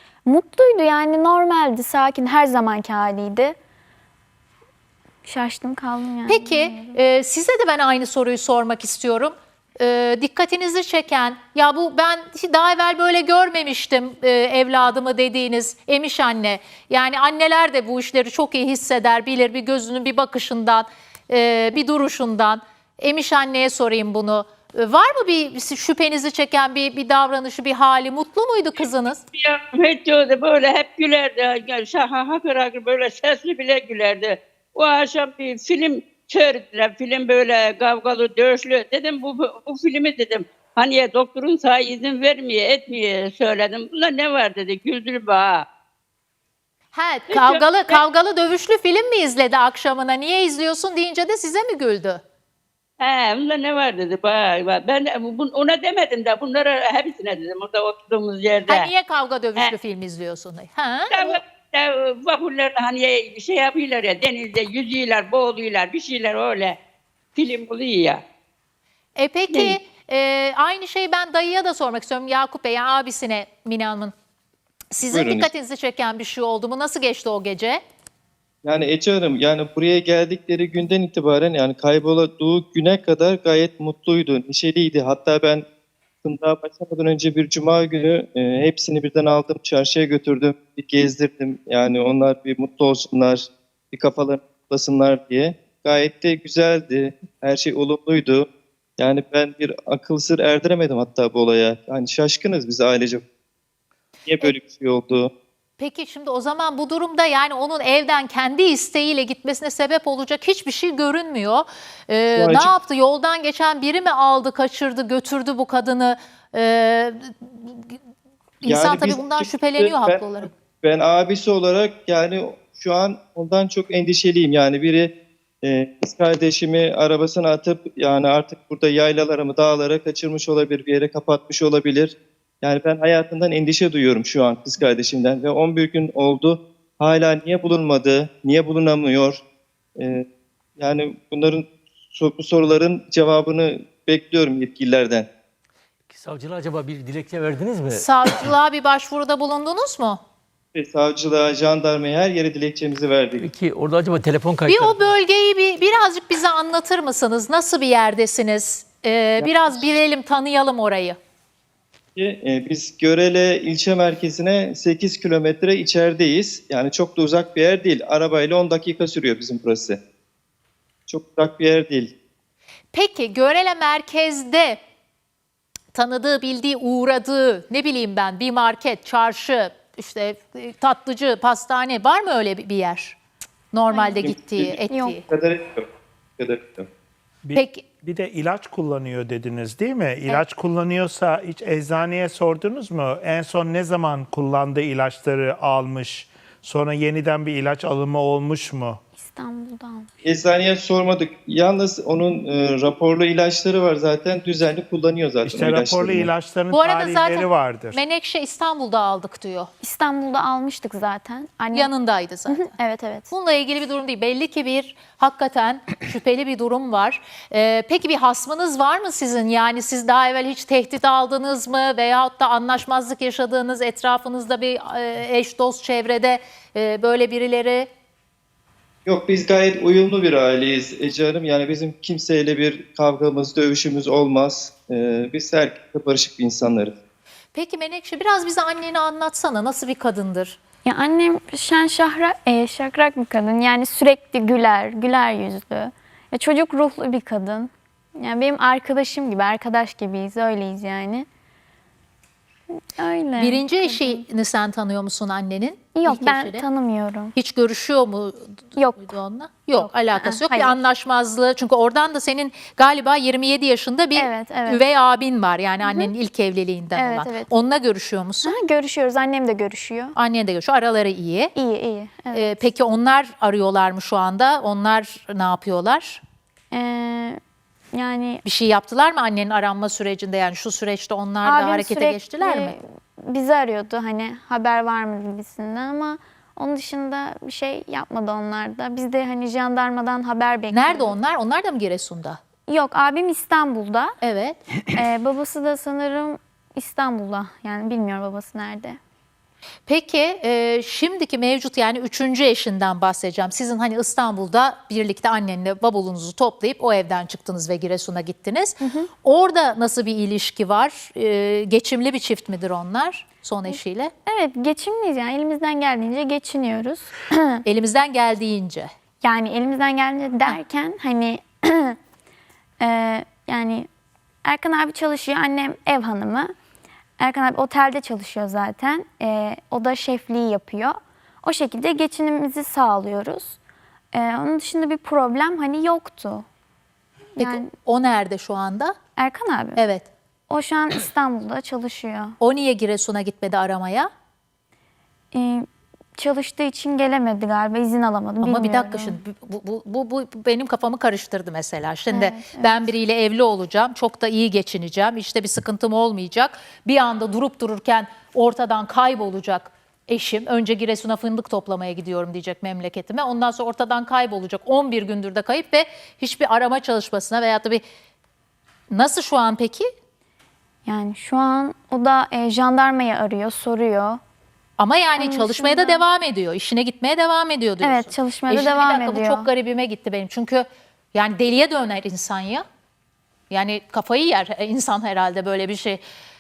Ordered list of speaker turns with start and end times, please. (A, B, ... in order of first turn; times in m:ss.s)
0:00.2-0:03.6 A
0:05.2-0:07.0 A
0:06.3-0:29.2 B
0:29.3-0:45.6 C
0:46.9-0:52.2 B
0:47.3-0:48.0 C
0:53.0-0:58.9 C
0:58.7-1:01.4 B
1:01.1-1:06.8 C
1:07.4-1:08.2 C
1:09.2-1:14.1 B
1:14.9-1:17.8 B
1:15.0-1:15.5 D
1:18.6-1:25.6 D
1:26.2-1:38.4 D
1:39.0-1:43.2 D
1:44.2-1:45.3 D
1:45.8-1:57.9 B
1:52.4-1:52.7 D
1:58.6-2:05.1 D
1:58.6-2:00.5 B
2:05.6-2:19.4 D
2:20.0-2:20.2 D
2:20.8-2:25.3 D
2:26.1-2:28.1 E
2:27.9-2:30.2 B
2:30.8-2:33.5 D
2:33.4-2:35.1 E
2:34.6-2:41.2 B
2:39.5-2:39.8 D
2:42.2-2:50.0 D
2:51.1-2:52.1 D
2:52.9-2:54.8 B
2:55.9-3:03.2 B
3:03.7-3:05.2 B
3:03.9-3:04.2 A
3:04.2-3:04.8 D
3:04.9-3:05.2 A
3:05.3-3:06.9 D
3:07.4-3:19.0 F
3:07.5-3:07.8 B
3:19.2-3:20.1 A
3:20.2-3:26.3 D
3:25.4-3:28.0 F
3:26.7-3:29.7 B
3:29.8-3:31.9 A
3:31.7-3:32.7 B
3:32.5-3:33.3 A
3:33.3-3:47.9 B
3:49.0-3:57.0 D
3:57.5-4:00.6 B
4:00.8-4:11.2 A
4:13.0-4:14.2 A
4:13.4-4:16.6 B
4:16.0-4:17.3 A
4:17.4-4:28.5 B
4:18.8-4:19.1 A
4:19.8-4:20.8 A
4:24.1-4:24.8 A
4:25.8-4:26.1 A
4:27.0-4:27.5 A
4:28.4-4:30.2 A
4:30.2-4:31.5 B
4:31.5-4:32.6 A
4:32.3-4:36.2 B
4:36.7-4:37.4 A
4:37.9-4:38.4 A
4:38.4-4:42.8 B
4:41.4-4:51.1 A
4:50.7-4:52.4 B
4:52.7-4:54.1 A
4:54.2-4:54.6 B
4:55.0-4:59.0 A
4:59.9-5:14.1 B
5:08.8-5:09.1 A
5:13.7-5:17.6 A
5:17.6-5:18.9 B
5:19.2-5:22.0 A
5:22.8-5:23.9 A
5:24.4-5:26.5 A
5:27.2-5:33.6 A
5:34.1-5:36.4 A
5:37.4-5:37.7 A
5:37.4-5:39.0 B
5:39.2-5:39.8 A
5:39.8-5:40.1 B
5:40.5-5:42.4 A
5:42.4-5:44.1 B
5:45.3-5:45.6 A
5:46.2-5:49.2 A
5:48.4-6:07.8 B
5:52.1-5:52.8 A
6:08.9-6:09.9 B
6:10.8-6:14.2 A
6:14.8-6:22.6 B
6:15.2-6:16.0 A
6:17.8-6:19.5 A
6:23.5-6:26.0 B